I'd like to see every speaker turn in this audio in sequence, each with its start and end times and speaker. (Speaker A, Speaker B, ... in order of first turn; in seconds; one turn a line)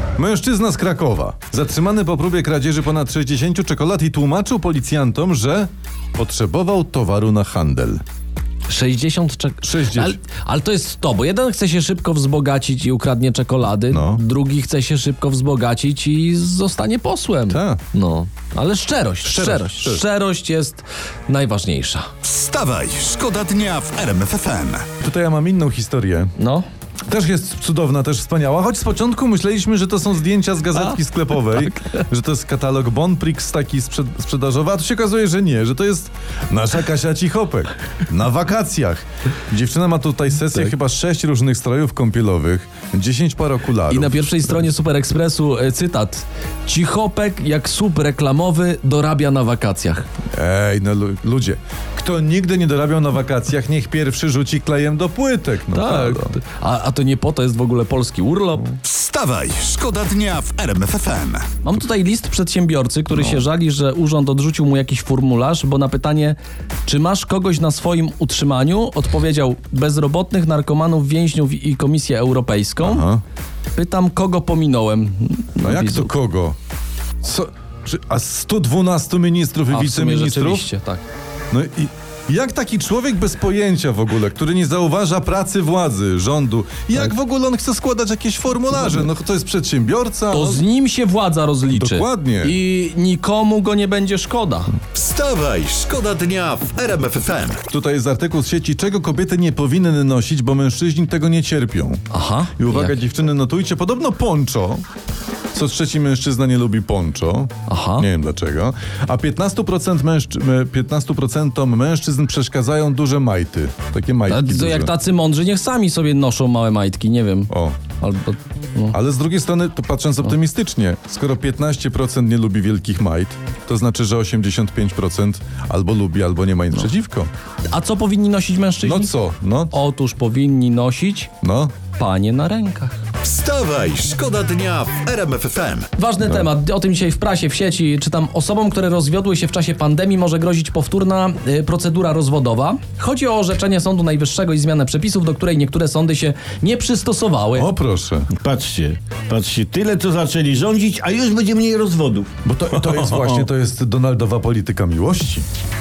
Speaker A: 0.2-8.0
Speaker B: 8.7-22.1
Speaker A: 9.6-10.2
Speaker A: 13.9-14.2
Speaker A: 17.5-17.8
Speaker A: 19.2-20.0
Speaker C: 22.2-24.9
Speaker A: 25.0-26.3
Speaker B: 26.4-26.6
Speaker A: 27.1-44.5
Speaker B: 31.5-31.9
Speaker B: 43.9-50.0
Speaker A: 50.3-56.4
Speaker B: 55.7-58.8
Speaker C: 58.8-61.5
Speaker B: 61.6-73.0
Speaker A: 63.1-63.4
Speaker A: 72.8-73.2
Speaker B: 73.7-76.1
Speaker A: 75.6-76.5
Speaker A: 77.2-80.7
Speaker B: 79.7-81.0
Speaker A: 81.5-90.6
Speaker B: 90.3-94.8
Speaker A: 91.7-92.5
Speaker C: 94.9-97.6
Speaker A: 97.7-102.0
Speaker B: 102.1-102.9
Speaker A: 102.5-104.8
Speaker A: 105.5-114.9
Speaker B: 107.7-108.1
Speaker B: 114.3-119.0
Speaker A: 117.5-117.8
Speaker A: 118.9-127.3
Speaker B: 127.7-129.1
Speaker A: 128.8-129.7
Speaker B: 129.7-131.3
Speaker A: 131.4-131.7
Speaker B: 131.9-133.0
Speaker C: 133.2-135.9
Speaker B: 136.0-147.7
Speaker A: 147.5-148.3
Speaker D: 148.4-152.3
Speaker A: 152.4-155.4